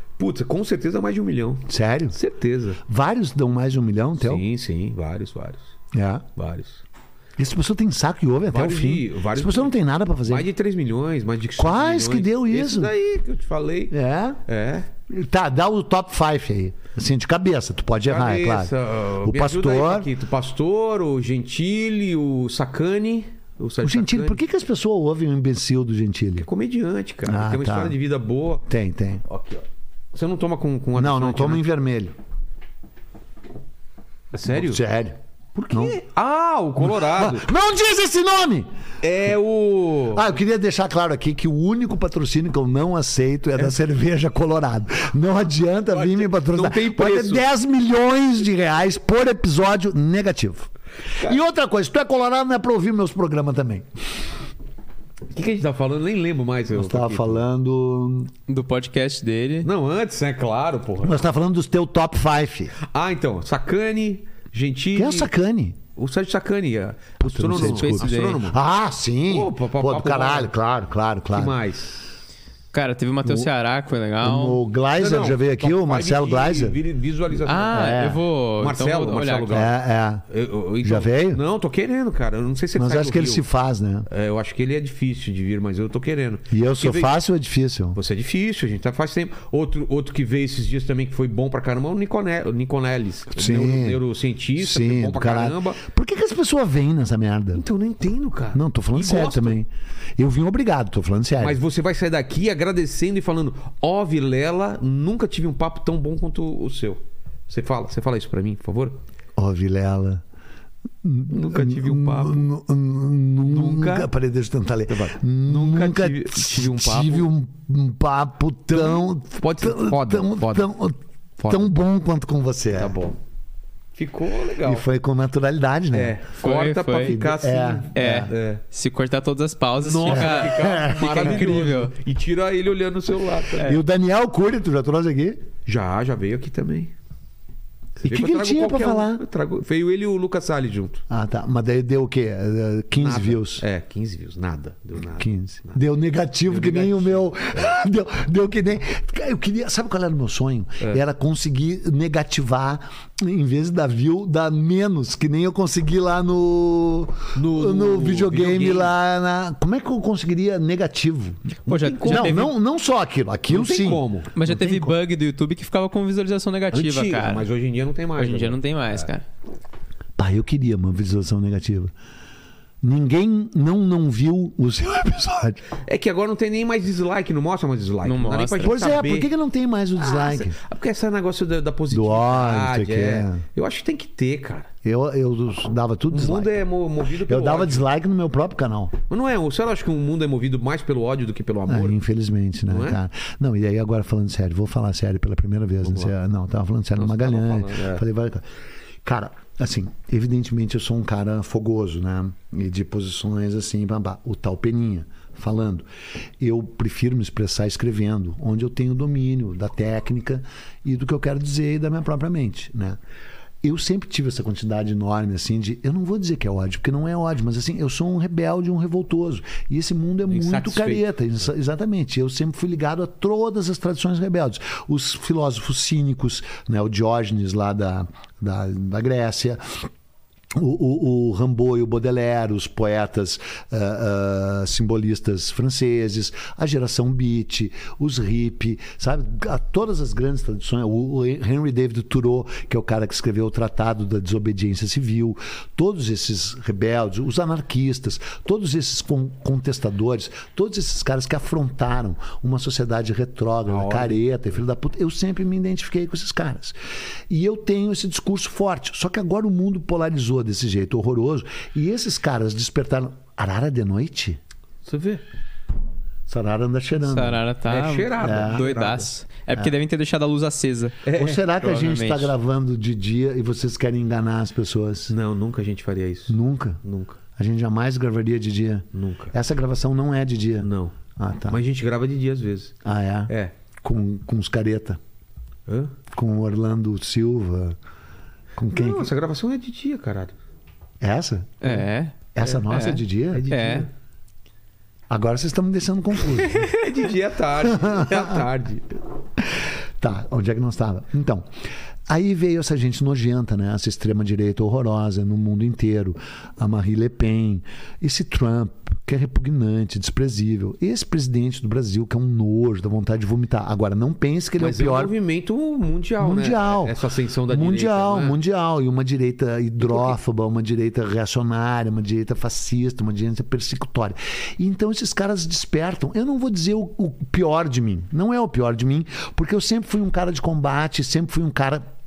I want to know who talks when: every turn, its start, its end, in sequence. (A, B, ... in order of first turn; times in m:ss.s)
0:00.2-0:02.8 A
0:01.7-0:02.2 B
0:02.8-0:04.4 B
0:04.2-0:05.7 A
0:05.9-0:06.2 B
0:06.4-0:06.8 A
0:07.4-0:10.5 B
0:08.5-0:09.8 A
0:10.3-0:14.9 A
0:11.6-0:12.9 B
0:13.9-0:14.4 B
0:15.1-0:20.1 B
0:18.1-0:24.4 A
0:23.8-0:26.5 B
0:26.4-0:28.6 A
0:27.2-0:28.0 B
0:28.7-0:29.2 B
0:29.3-0:31.6 A
0:31.0-0:32.2 B
0:34.3-0:34.8 A
0:34.5-0:35.2 B
0:35.6-0:37.5 A
0:35.7-0:36.0 B
0:36.8-0:38.7 B
0:39.0-0:40.3 A
0:40.1-0:50.7 B
0:45.9-0:47.5 A
0:51.2-0:53.9 B
0:55.3-0:57.4 A
0:56.7-0:58.3 B
0:58.5-0:59.7 C
0:59.6-1:01.3 A
1:01.0-1:02.7 B
1:02.8-1:05.3 A
1:05.0-1:05.8 B
1:06.0-1:08.6 A
1:07.2-1:11.6 B
1:07.5-1:08.4 C
1:09.3-1:10.5 A
1:11.3-1:12.1 A
1:12.7-1:14.6 C
1:13.2-1:13.5 B
1:14.2-1:16.8 B
1:15.0-1:18.1 A
1:17.5-1:19.6 C
1:17.7-1:18.2 B
1:18.6-1:19.8 A
1:19.5-1:20.2 B
1:20.3-1:23.4 A
1:20.8-1:21.4 B
1:22.8-1:24.1 B
1:24.1-1:27.2 A
1:26.5-1:28.0 B
1:27.9-1:35.8 A
1:33.4-1:34.0 B
1:34.6-1:37.6 B
1:37.5-1:39.6 A
1:38.5-1:41.6 B
1:41.4-1:49.0 A
1:49.4-1:50.2 B
1:51.0-2:03.0 B
1:51.3-1:52.5 A
1:53.4-1:54.1 A
1:54.9-1:57.3 A
1:58.7-2:00.7 A
2:01.4-2:01.7 A
2:02.7-2:03.2 A
2:04.0-2:04.8 A
2:04.6-2:06.2 B
2:05.9-2:08.6 A
2:06.4-2:07.2 C
2:07.0-2:08.3 B
2:08.0-2:11.9 C
2:09.8-2:13.8 A
2:10.1-2:11.5 B
2:13.6-2:15.4 B
2:15.7-2:16.9 A
2:18.0-2:19.2 B
2:18.0-2:21.0 A
2:21.1-2:23.6 B
2:23.0-2:25.8 A
2:25.2-2:41.5 B
2:26.5-2:27.8 A
2:37.4-2:38.9 A
2:41.7-2:42.5 A
2:41.7-2:42.5 C
2:42.1-2:45.0 B
2:43.5-2:44.3 A
2:44.4-2:47.5 C
2:46.7-2:49.1 A
2:48.2-2:49.2 C
2:50.2-2:51.9 B
2:52.8-2:55.6 B
2:55.9-2:59.3 A
2:58.0-2:58.8 C
2:58.6-3:00.6 B
3:00.0-3:04.7 A
3:01.9-3:03.4 B
3:04.8-3:06.6 B
3:06.1-3:07.9 A
3:07.2-3:09.0 B
3:09.1-3:12.0 A
3:11.7-3:18.5 B
3:12.7-3:13.0 A
3:15.8-3:16.1 A
3:17.0-3:18.0 A
3:19.0-3:25.9 B
3:26.4-3:33.0 B
3:33.6-3:49.9 B
3:40.3-3:41.1 A
3:50.5-4:16.8 B
4:13.7-4:14.2 A
4:17.3-4:24.4 B
4:24.9-4:25.2 A
4:26.3-4:27.4 B
4:27.0-4:31.1 C
4:27.6-4:29.1 A
4:28.2-4:28.7 B
4:31.0-4:31.8 A
4:31.2-4:35.1 B
4:31.6-4:32.3 C
4:35.1-4:37.2 A
4:36.3-4:36.8 B
4:37.4-4:41.6 B
4:38.9-4:39.4 A
4:40.6-4:41.0 A
4:41.5-4:42.8 A
4:42.8-4:45.0 B
4:43.3-4:43.5 A
4:45.7-4:45.9 A
4:46.1-4:47.8 B
4:48.6-4:49.1 B
4:48.7-4:50.4 A
4:51.0-4:51.8 B
4:51.6-4:53.9 C
4:52.4-4:53.5 B
4:53.3-4:53.9 A
4:55.1-4:56.7 B
4:56.6-4:58.9 A
4:57.6-4:58.4 B
4:59.4-5:01.5 B
5:02.1-5:15.1 B
5:14.6-5:18.4 A
5:16.2-5:17.0 B
5:17.5-5:31.8 B